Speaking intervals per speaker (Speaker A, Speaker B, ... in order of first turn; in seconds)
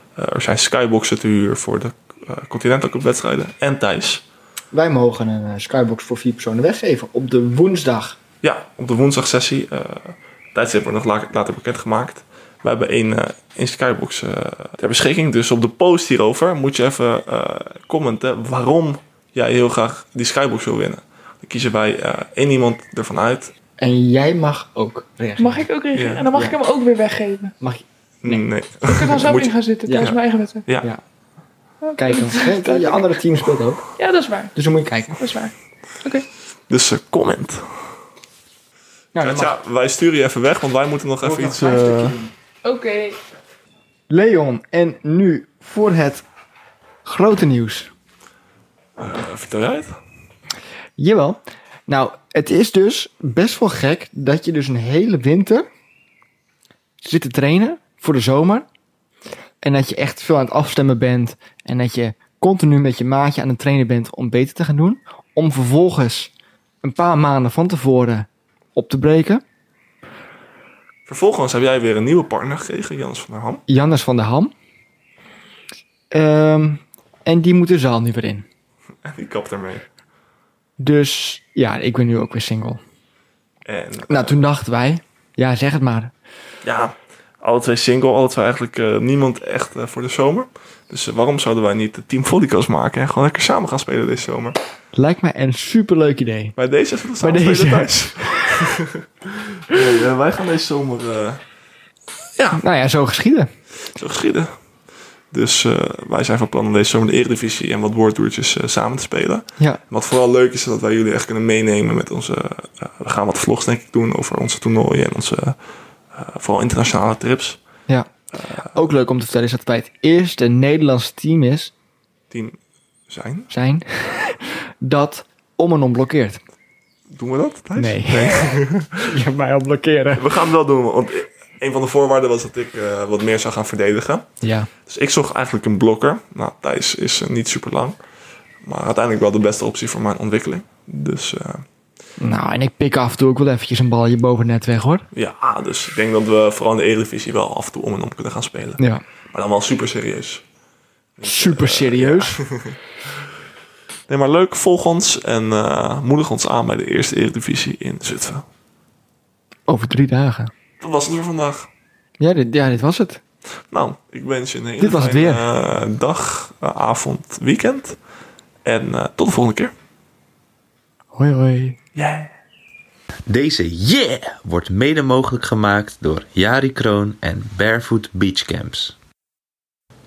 Speaker A: 0.2-4.2, 8.4-23.5, 25.9-26.3, 28.2-30.9, 36.7-37.8, 39.2-42.2, 49.0-50.0, 71.1-73.6, 79.0-79.9, 83.7-84.4, 86.6-94.6, 96.6-101.4, 102.4-102.6, 103.9-104.5, 105.3-115.6, 116.1-117.6, 118.3-118.7, 122.3-122.6, 123.1-123.5, 127.1-129.2, 130.2-134.3, 134.9-138.0, 138.6-141.7, 145.1-150.4, 151.2-152.8, 154.1-158.4, 160.8-161.7, 163.7-168.0, 168.7-169.7, 171.9-172.3
Speaker B: 4.7-8.2, 23.8-25.7, 27.6-28.4, 29.9-30.2, 32.0-33.8, 34.5-35.2, 39.1-39.5, 41.2-42.3, 44.1-46.2, 47.0-47.9, 51.0-55.7, 57.0-58.7, 59.6-66.3, 66.8-69.4, 73.7-74.5, 76.1-78.5, 80.8-82.8, 84.1-86.1, 95.0-96.6, 97.2-98.6, 102.5-103.5, 118.6-121.7, 123.5-126.4, 127.8-130.4, 134.4-134.7, 142.2-145.1, 148.8-149.0, 151.2-152.4, 159.7-160.5, 162.2-163.2, 164.8-165.4, 171.1-171.8
Speaker C: 25.4-27.5, 28.9-30.6, 31.8-33.2, 34.0-34.5, 35.2-36.3, 42.6-43.2
Speaker D: 173.3-179.0